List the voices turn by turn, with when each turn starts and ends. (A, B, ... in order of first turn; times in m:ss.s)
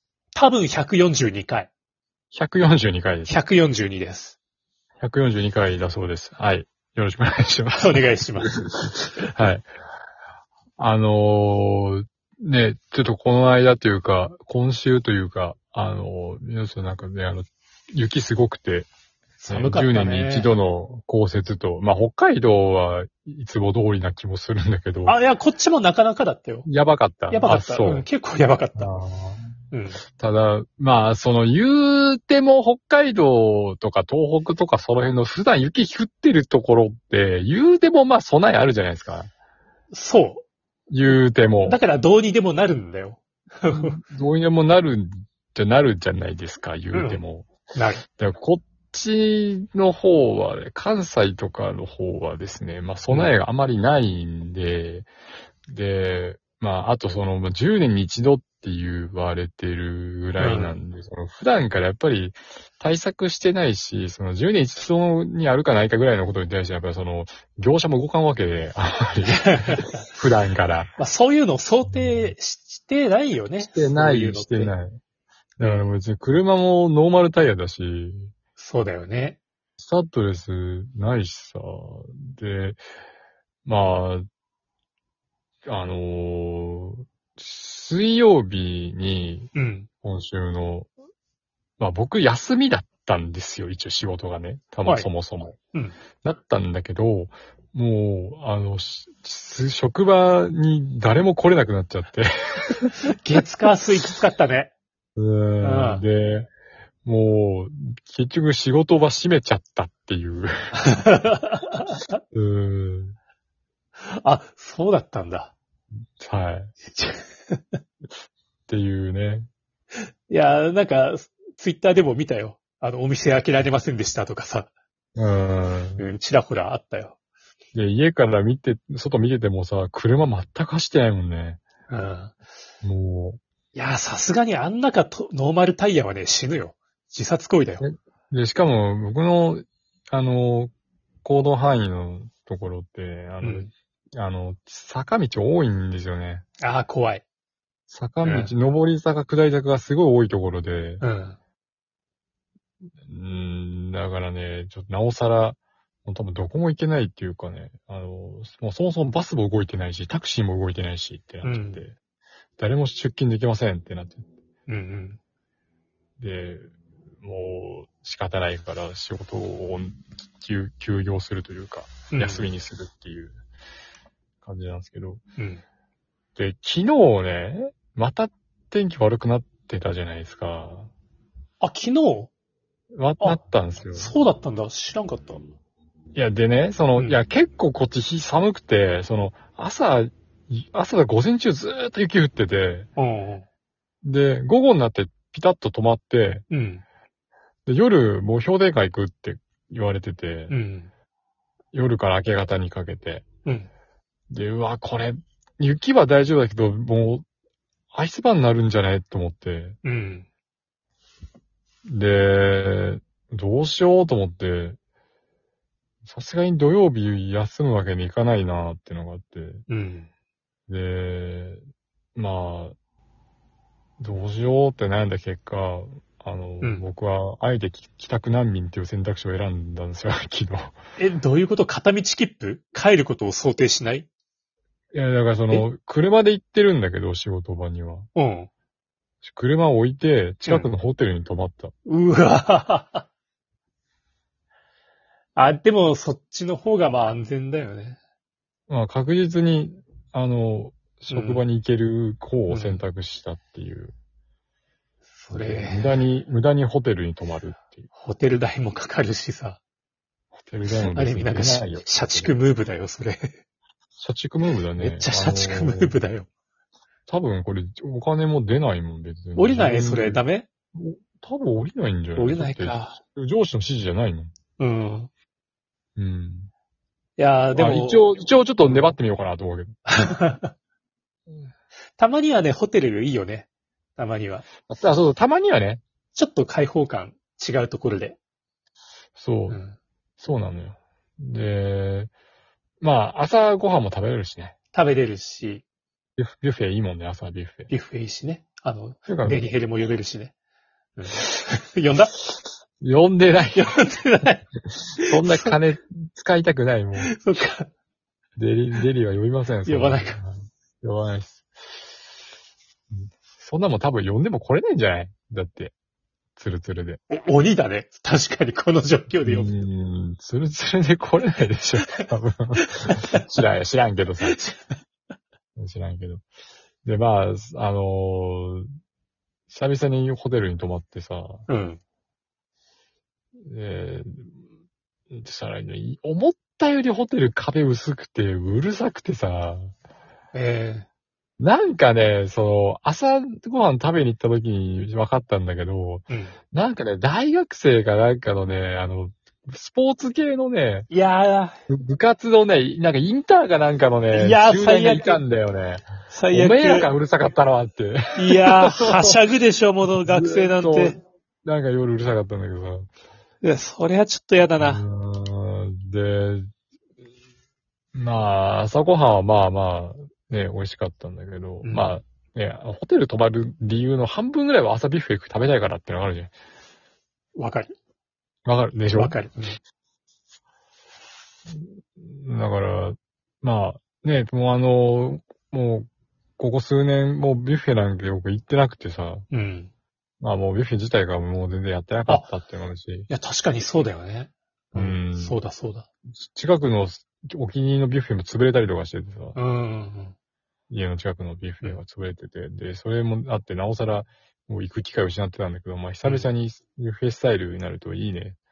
0:00.4-0:01.7 A
0:02.3-0:03.4 B
0:03.3-0:04.4 A
0:05.0-0:09.7 B
0:07.8-0:08.6 A
0:10.8-0:18.9 B
0:19.4-0:20.5 A
0:19.5-0:25.2 B
0:25.1-0:26.7 A
0:26.7-0:28.1 B
0:27.3-0:28.9 A
0:28.8-0:29.6 B
0:29.7-0:30.0 A
0:30.2-0:39.3 B
0:39.9-0:40.4 A
0:40.9-0:41.8 B
0:41.7-0:44.0 A
0:43.7-0:47.5 B
0:46.9-0:47.2 A
0:47.7-0:48.0 A
0:48.2-0:55.1 B
0:55.7-1:10.9 B
1:00.4-1:00.8 A
1:09.3-1:10.0 A
1:11.0-1:14.8 A
1:13.6-1:15.0 B
1:15.6-1:18.3 B
1:15.6-1:15.9 A
1:18.6-1:19.4 A
1:19.8-1:22.8 B
1:23.7-1:24.2 B
1:25.7-1:29.5 B
1:29.6-1:29.9 A
1:30.0-1:30.9 B
1:31.8-1:35.6 B
1:36.2-1:43.0 B
1:43.1-1:44.7 A
1:45.2-1:46.5 B
1:45.6-1:46.0 A
1:47.0-1:50.6 B
1:50.8-1:52.1 A
1:52.3-1:53.2 B
1:54.1-1:55.5 A
1:56.2-1:56.7 B
1:56.9-1:57.8 A
1:58.7-1:59.5 B
2:00.3-2:04.7 A
2:05.2-2:06.0 B
2:06.0-2:07.2 A
2:07.7-2:11.6 B
2:11.9-2:12.4 A
2:12.8-2:13.4 B
2:13.8-2:17.8 A
2:17.8-2:20.7 B
2:21.2-2:26.4 B
2:23.4-2:23.7 A
2:26.6-2:27.2 A
2:27.9-2:31.0 B
2:28.2-2:28.5 A
2:31.0-2:31.4 A
2:33.0-2:42.0 B
2:41.4-2:41.8 A
2:42.6-2:44.3 B
2:44.7-2:45.2 A
2:46.2-2:53.3 B
2:52.1-2:52.5 A
2:54.4-2:55.2 B
2:55.4-2:55.6 A
2:56.4-3:00.9 B
3:01.6-3:02.3 A
3:02.9-3:04.2 B
3:03.9-3:05.5 A
3:06.2-3:12.9 B
3:13.0-3:13.5 A
3:14.0-3:16.4 B
3:16.5-3:16.8 A
3:17.7-3:20.6 B
3:20.5-3:20.9 A
3:21.7-3:23.3 B
3:24.3-3:27.2 B
3:27.9-3:29.8 B
3:29.8-3:30.3 A
3:31.9-3:34.8 B
3:36.0-3:39.6 B
3:39.7-3:40.1 A
3:40.7-3:41.6 B
3:42.2-3:42.8 B
3:44.0-3:50.8 B
3:51.0-3:54.1 A
3:54.9-3:58.1 B
3:58.2-3:58.5 A
3:59.2-4:01.7 B
4:00.4-4:00.7 A
4:01.9-4:03.1 A
4:05.4-4:08.0 A
4:08.7-4:13.9 B
4:11.1-4:11.4 A
4:12.5-4:12.8 A
4:15.2-4:16.0 A
4:15.3-4:17.9 B
4:18.0-4:19.6 A
4:20.4-4:22.3 B
4:20.7-4:23.3 A
4:24.0-4:26.0 B
4:24.8-4:26.3 A
4:27.1-4:30.2 B
4:29.4-4:30.5 A
4:30.8-4:34.3 B
4:32.2-4:33.0 A
4:34.6-4:35.1 A
4:36.0-4:36.5 B
4:37.2-4:39.0 A
4:37.5-4:39.8 B
4:39.9-4:40.5 A
4:42.0-4:44.5 A
4:44.7-4:45.8 B
4:46.2-4:48.2 A
4:49.2-4:49.6 B
4:49.5-4:49.8 A
4:50.2-4:52.1 B
4:52.8-4:54.6 B
4:54.7-4:55.6 A
4:56.2-4:57.7 B
4:57.7-5:00.3 A
4:59.1-4:59.5 B
5:01.0-5:02.1 A
5:02.8-5:03.9 B
5:03.6-5:04.4 A
5:05.0-5:07.1 B
5:05.0-5:05.6 A
5:07.0-5:07.7 A
5:08.4-5:11.5 B
5:09.6-5:10.2 A
5:12.9-5:15.7 B
5:16.4-5:17.0 B
5:17.1-5:19.6 A
5:19.2-5:24.4 B
5:22.6-5:23.2 A
5:24.2-5:24.7 A
5:25.6-5:26.3 B
5:26.8-5:28.7 B
5:29.5-5:31.4 B
5:31.5-5:31.8 A
5:33.5-5:34.3 B
5:35.1-5:39.7 B
5:40.3-5:40.9 A
5:41.4-5:50.9 B
5:46.1-5:46.4 A
5:50.9-5:51.6 A
5:51.7-5:59.2 B
5:54.1-5:55.2 A
5:56.1-5:56.9 A
5:58.2-6:01.0 A
5:59.9-6:02.9 B
6:03.4-6:04.8 A
6:04.6-6:06.5 B
6:07.9-6:16.3 B
6:11.6-6:11.9 A
6:17.4-6:17.7 A
6:18.5-6:19.2 B
6:18.9-6:19.6 A
6:21.5-6:25.9 B
6:26.4-6:29.3 B
6:29.3-6:29.7 A
6:30.2-6:33.1 B
6:33.1-6:35.9 A
6:34.8-6:35.4 B
6:36.1-6:39.4 B
6:39.4-6:40.2 A
6:40.7-6:48.4 B